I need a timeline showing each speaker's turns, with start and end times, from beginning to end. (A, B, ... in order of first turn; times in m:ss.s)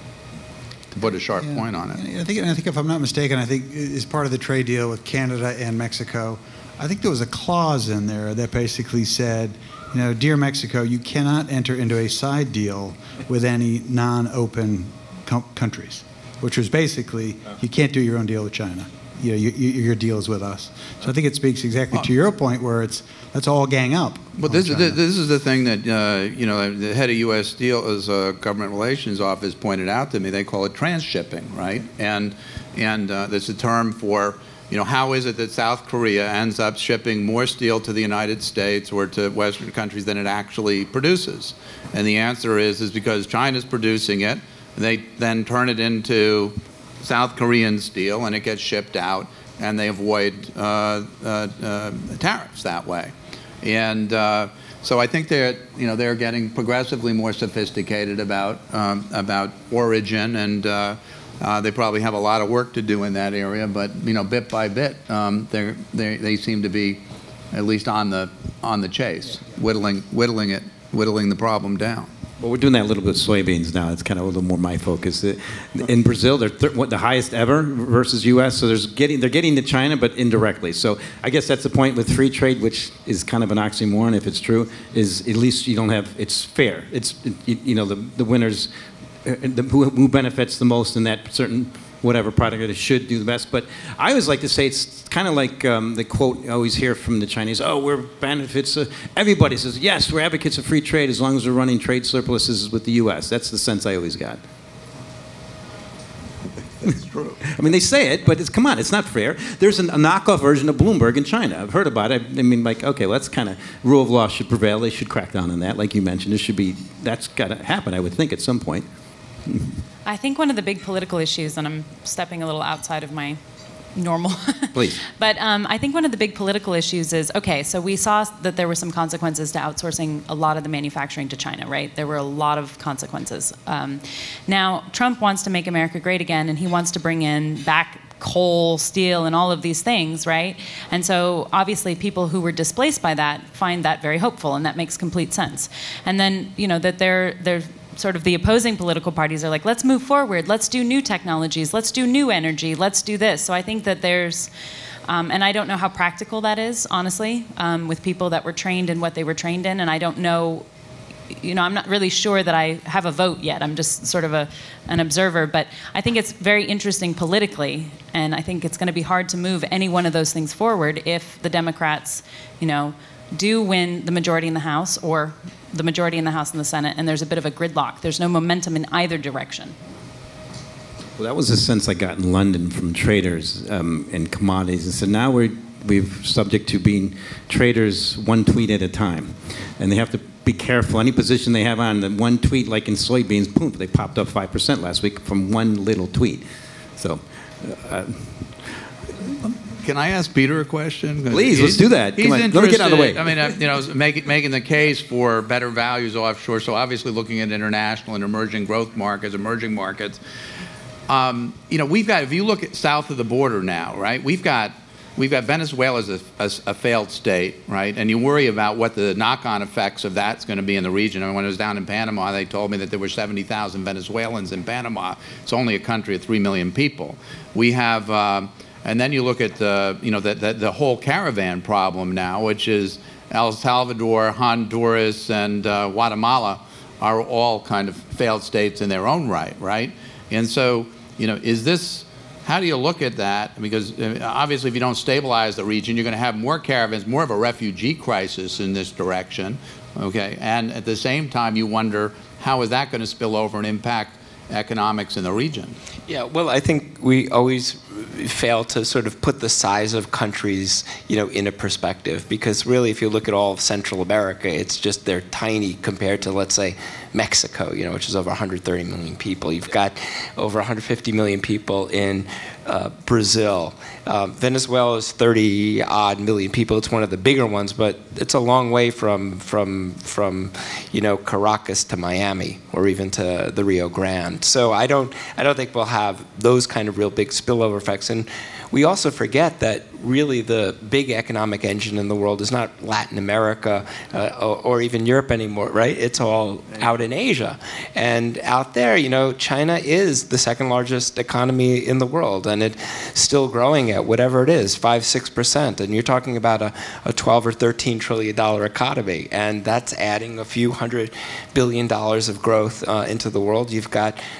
0:00.9-0:02.0 A
0:01.4-0:25.0 B
0:24.4-1:12.1 A
1:12.4-1:28.7 C
1:29.2-1:44.4 C
1:46.8-1:58.9 C
1:47.0-1:47.4 A
1:59.4-1:59.7 C
2:00.0-2:03.4 D
2:03.9-2:34.5 D
2:04.7-2:05.0 C
2:35.1-2:40.6 D
2:41.3-2:59.7 D
3:01.2-3:16.4 C
3:17.0-3:18.7 C
3:19.8-3:30.2 A
3:21.3-3:23.4 C
3:31.1-4:15.8 A
4:16.1-5:14.2 E